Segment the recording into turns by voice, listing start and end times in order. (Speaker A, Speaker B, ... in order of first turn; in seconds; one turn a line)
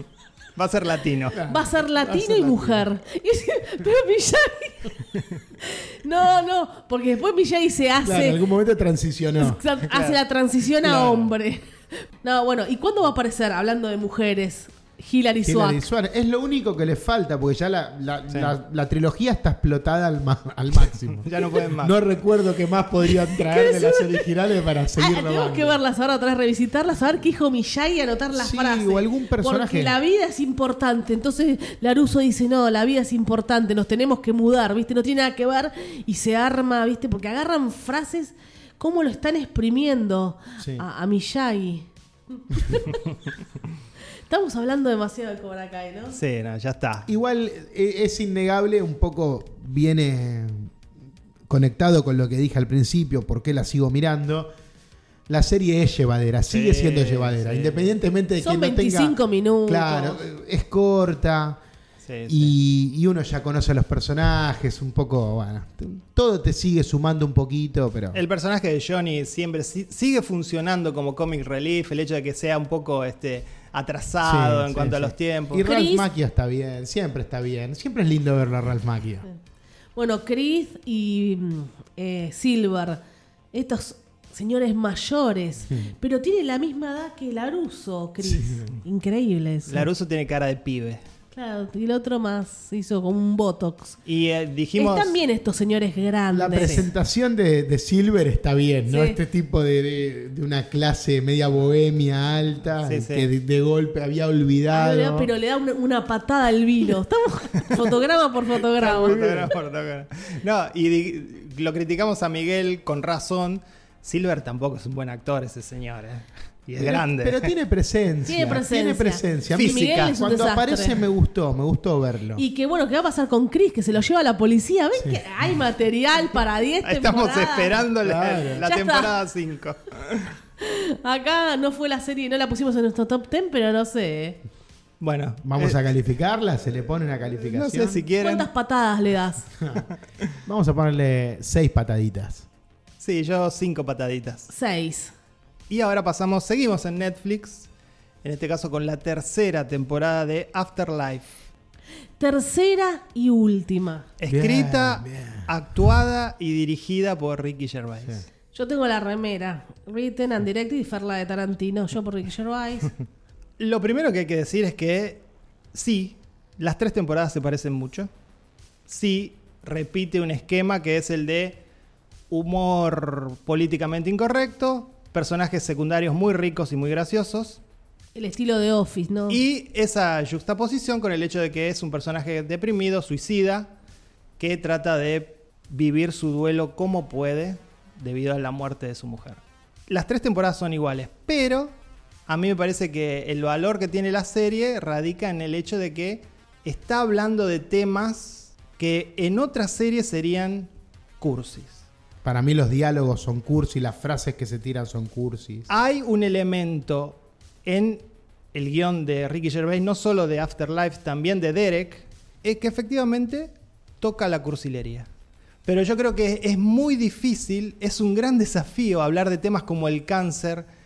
Speaker A: 0.6-1.4
Speaker B: 1.3-2.9
Speaker C: 1.5-5.0
Speaker C: 5.6-8.4
Speaker B: 8.0-9.6
Speaker C: 9.4-15.8
Speaker A: 9.9-10.2
Speaker A: 10.8-11.3
Speaker B: 15.4-25.8
Speaker A: 21.2-22.0
Speaker C: 23.1-24.3
Speaker C: 24.9-43.0
Speaker B: 28.4-30.0
Speaker B: 40.6-40.9
Speaker C: 44.3-46.2
Speaker A: 46.1-47.1
Speaker B: 47.1-50.7
Speaker B: 51.5-54.5
Speaker B: 55.3-61.6
Speaker A: 56.5-57.9
Speaker C: 58.4-60.2
Speaker A: 62.0-62.5
Speaker B: 62.3-68.2
Speaker A: 68.1-75.7
Speaker B: 74.2-79.2
Speaker C: 75.6-76.1
Speaker C: 80.0-83.0
Speaker C: 83.5-89.9
Speaker B: 88.2-88.8
Speaker A: 89.7-91.0
Speaker C: 91.3-94.0
Speaker A: 94.1-95.2
Speaker C: 94.8-96.8
Speaker B: 96.3-105.3
Speaker C: 98.9-99.2
Speaker A: 102.8-103.3
Speaker C: 104.7-109.2
Speaker A: 108.8-117.5
Speaker B: 108.9-109.5
Speaker B: 116.8-122.4
Speaker C: 118.3-121.0
Speaker A: 119.5-120.2
Speaker C: 122.4-127.9
Speaker A: 126.8-130.3
Speaker B: 128.0-128.7
Speaker C: 128.6-129.1
Speaker C: 130.6-134.4
Speaker A: 135.0-135.8
Speaker B: 135.4-138.0
Speaker A: 137.5-138.5
Speaker C: 138.2-139.5
Speaker B: 139.6-139.9
Speaker B: 140.4-142.5
Speaker A: 143.0-144.5
Speaker C: 144.5-145.1
Speaker A: 145.7-147.7
Speaker A: 148.2-151.3
Speaker C: 152.2-154.1
Speaker A: 154.2-158.2
Speaker B: 154.3-155.5
Speaker C: 158.5-162.9
Speaker A: 163.6-168.1
Speaker A: 168.9-171.6
Speaker A: 172.3-177.6
Speaker C: 178.2-179.4
Speaker A: 179.3-183.7
Speaker A: 184.4-191.7
Speaker A: 192.3-201.9
Speaker B: 202.2-205.7
Speaker A: 205.7-208.0
Speaker A: 208.5-215.1
Speaker A: 215.7-220.7